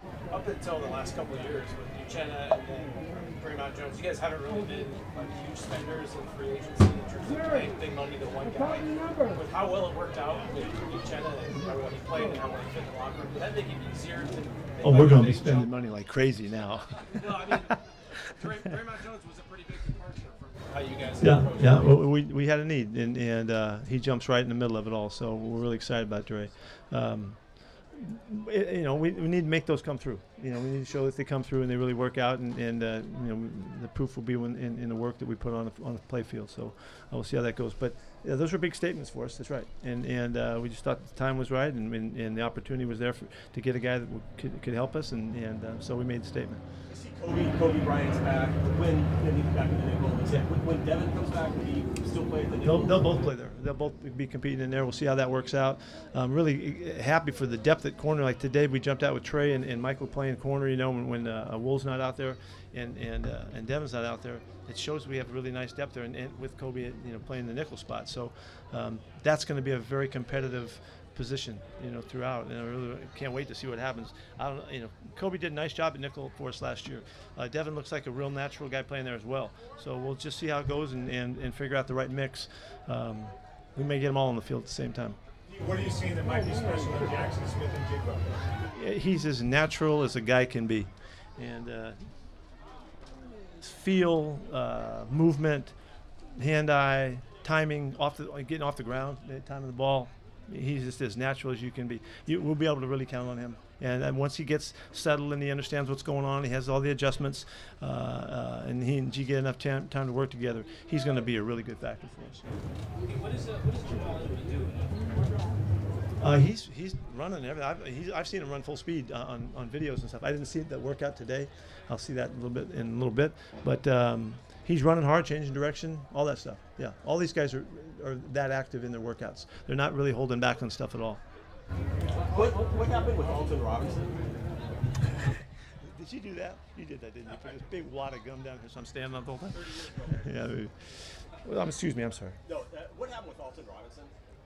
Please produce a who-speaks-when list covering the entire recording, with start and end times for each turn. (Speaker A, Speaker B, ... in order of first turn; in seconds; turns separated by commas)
Speaker A: 0.3-15.7, Speaker B: 14.8-17.8, Speaker A: 17.1-22.0, Speaker B: 21.2-46.6, Speaker C: 46.9-53.2, Speaker B: 52.6-85.2, Speaker D: 85.5-88.4, Speaker B: 88.7-92.1, Speaker B: 93.4-95.8, Speaker B: 96.4-112.5, Speaker A: 113.0-115.2, Speaker B: 116.2-131.2, Speaker C: 132.3-134.3, Speaker B: 135.8-142.4, Speaker C: 142.5-144.2